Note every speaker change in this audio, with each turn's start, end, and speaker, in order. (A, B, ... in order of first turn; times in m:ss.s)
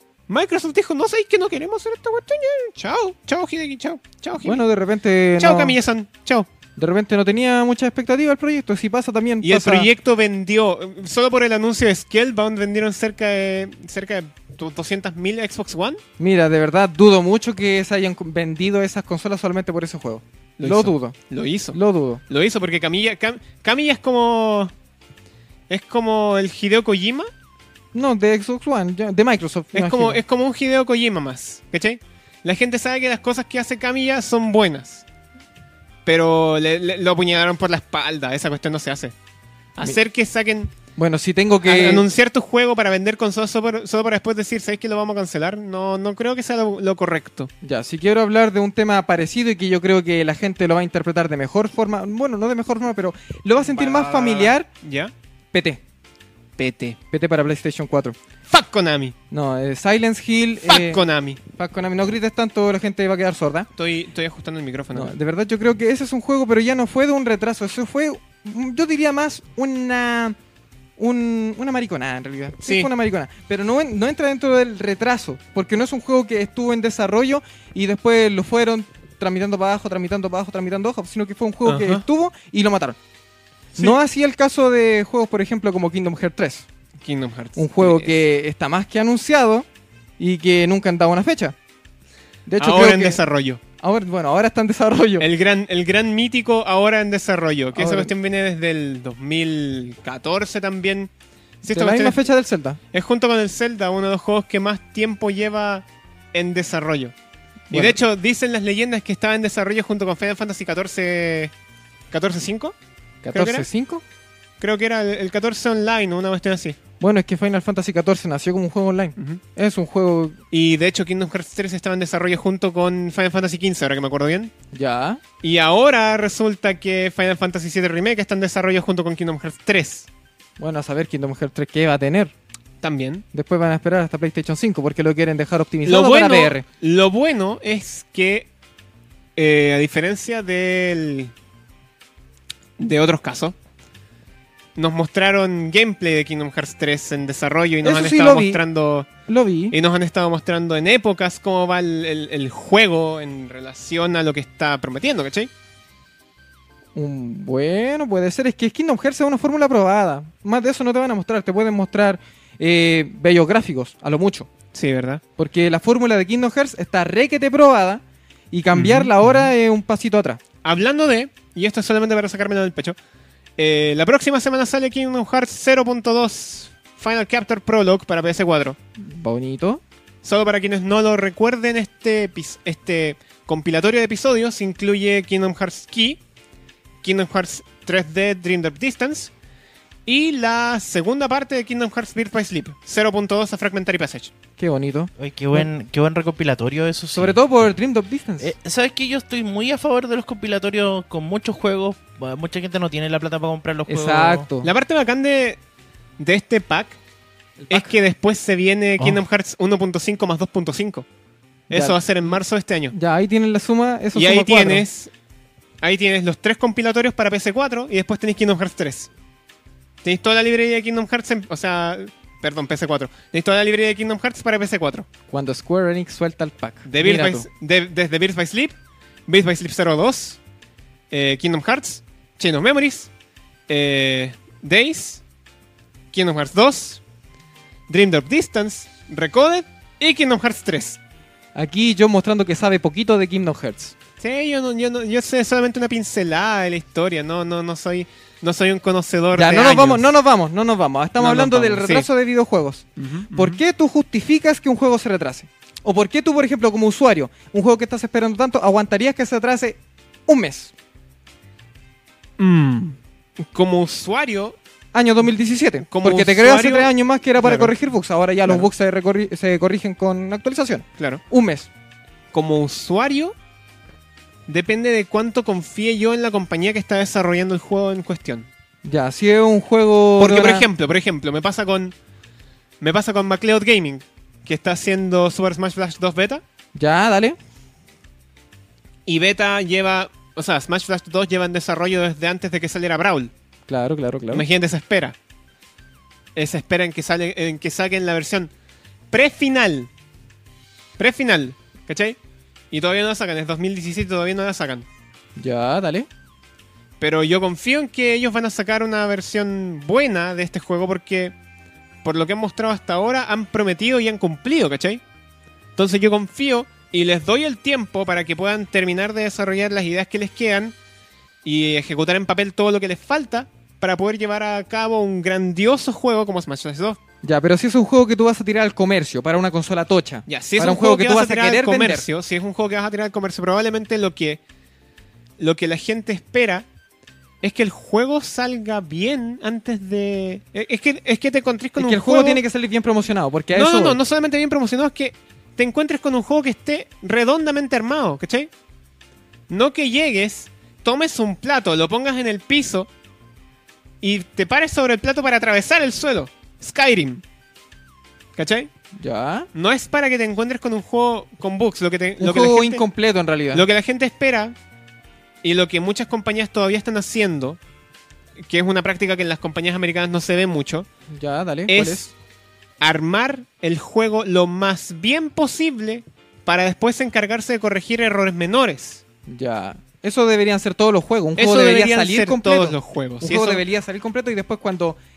0:00.3-0:04.6 A
0:04.4-0:05.8 B
0:05.4-0:06.5 A
0:06.8-0:09.9 B
0:09.4-0:16.0 A
0:16.2-0:21.1 B
0:20.6-0:21.8 A
0:21.7-0:22.2 B
0:22.3-0:24.7 A
0:25.7-0:27.3 A
0:27.9-0:30.2 B
0:29.7-0:35.0 A
0:36.0-0:39.1 A
0:39.8-0:40.7 A
0:41.0-0:42.0 B
0:41.6-0:47.5 A
0:47.6-0:54.7 B
0:53.6-0:55.1 A
0:55.5-0:55.8 B
0:56.6-0:57.0 A
0:57.1-0:58.2 B
0:58.5-0:59.1 A
0:59.3-1:03.7 B
1:00.6-1:01.4 A
1:03.8-1:05.1 A
1:04.9-1:10.4 B
1:11.0-1:23.0 B
1:12.6-1:12.9 A
1:21.6-1:22.0 A
1:23.8-1:26.7 B
1:27.0-1:28.2 A
1:27.6-1:29.6 B
1:30.2-1:31.5 B
1:32.5-1:33.2 B
1:32.6-1:33.6 A
1:33.8-1:35.2 B
1:35.2-1:41.1 A
1:37.7-1:38.1 B
1:41.6-1:42.2 A
1:41.6-1:42.8 B
1:42.9-1:47.1 A
1:47.7-1:47.9 B
1:47.7-1:51.5 A
1:52.1-1:52.7 A
1:53.2-1:54.0 B
1:53.3-1:53.7 A
1:54.6-1:56.8 A
1:57.0-2:00.4 B
2:00.5-2:04.5 A
2:04.7-2:05.2 B
2:05.4-2:10.1 A
2:10.6-2:12.3 B
2:12.8-2:13.2 A
2:13.3-2:16.6 B
2:15.8-2:18.5 A
2:19.4-2:21.3 A
2:22.8-2:23.5 A
2:24.8-2:29.1 A
2:27.8-2:28.6 B
2:29.3-2:29.8 B
2:29.7-2:35.5 A
2:36.9-2:44.5 B
2:44.7-2:45.2 A
2:45.4-2:50.4 B
2:48.7-2:49.5 A
2:50.6-2:53.0 A
2:53.6-2:58.8 A
2:59.0-2:59.8 B
3:00.2-3:06.2 A
3:07.0-3:09.3 A
3:10.0-3:14.3 A
3:14.6-3:15.7 B
3:15.2-3:17.7 C
3:17.2-3:18.5 B
3:18.4-3:24.5 C
3:23.9-3:24.7 B
3:24.6-3:25.6 A
3:26.2-3:27.0 A
3:27.6-3:27.9 B
3:27.7-3:31.0 A
3:31.7-3:32.9 A
3:31.7-3:32.0 B
3:32.9-3:34.8 B
3:34.1-3:35.1 A
3:35.8-3:39.1 A
3:40.0-3:45.1 A
3:45.3-3:47.4 B
3:46.8-3:48.7 A
3:49.3-3:50.4 A
3:51.1-3:53.1 A
3:53.7-3:55.2 A
3:56.1-3:57.0 A
3:57.9-4:01.0 A
4:01.5-4:03.9 B
4:04.2-4:10.0 A
4:09.3-4:20.7 B
4:11.2-4:12.1 A
4:13.0-4:13.6 A
4:22.4-4:23.0 A
4:23.5-4:24.6 A
4:24.9-4:31.7 B
4:25.9-4:27.7 A
4:32.3-4:33.3 A
4:34.5-4:38.5 A
4:38.8-4:40.7 B
4:40.2-4:41.9 A
4:42.8-4:46.4 A
4:46.7-4:47.4 B
4:49.0-4:53.3 A
4:53.7-4:54.4 B
4:54.3-4:55.1 A
4:56.4-4:58.5 A
4:59.1-4:59.9 A
5:01.0-5:02.2 A
5:02.7-5:04.8 A
5:05.4-5:06.1 B
5:07.0-5:11.3 A
5:12.0-5:15.0 A
5:15.8-5:20.7 A
5:21.4-5:27.0 A
5:27.2-5:32.0 B
5:30.3-5:34.4 A
5:35.4-5:36.6 A
5:37.4-5:42.4 A
5:41.8-5:44.0 B
5:43.5-5:48.5 A
5:49.5-5:52.9 A
5:54.0-5:57.2 A
5:58.4-5:58.7 A
5:59.0-5:59.5 B
5:59.5-6:02.8 A
6:02.2-6:03.6 B
6:03.5-6:04.5 A
6:05.4-6:07.6 A
6:08.4-6:10.8 A
6:11.1-6:12.1 B
6:11.7-6:12.1 A
6:12.8-6:19.0 A
6:19.3-6:25.0 B
6:21.4-6:23.6 A